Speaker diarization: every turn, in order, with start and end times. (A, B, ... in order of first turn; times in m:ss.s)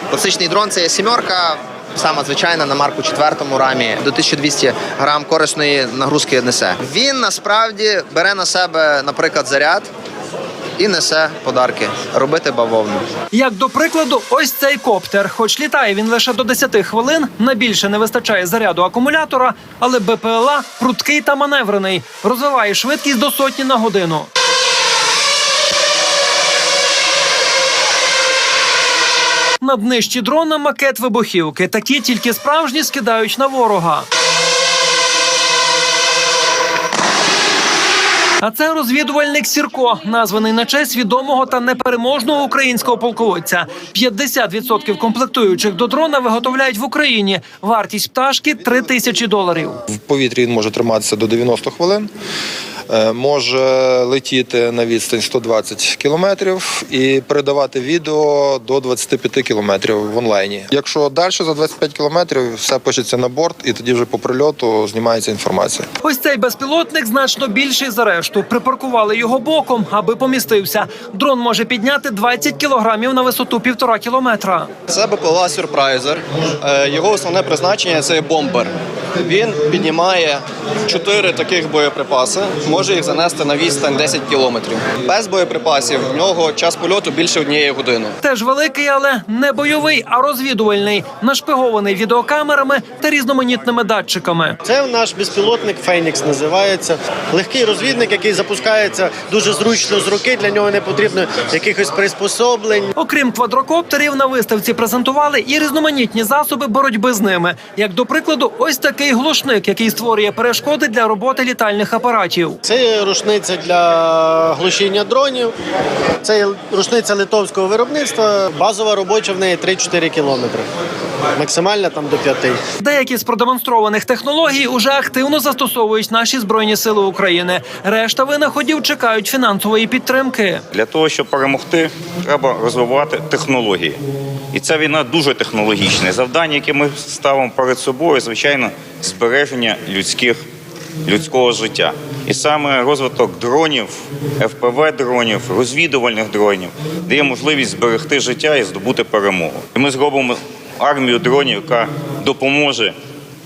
0:00.1-0:09.9 A
0:10.8-0:13.0 A
0:13.3-0:24.3 B
0:29.6-0:34.1 B
0:38.4-0:49.8 B
0:49.9-0:52.1 C
0:52.9-1:05.8 C
1:06.0-1:14.7 B
1:14.9-1:18.7 D
1:19.2-1:28.1 D
1:28.2-1:34.6 B
1:34.6-1:42.9 E
1:43.0-1:52.6 B
1:52.6-1:55.5 E
1:56.2-2:00.6 E
2:01.4-2:02.6 E
2:02.8-2:10.6 B
2:10.7-2:14.0 F
2:14.5-2:20.4 F
2:21.0-2:32.9 F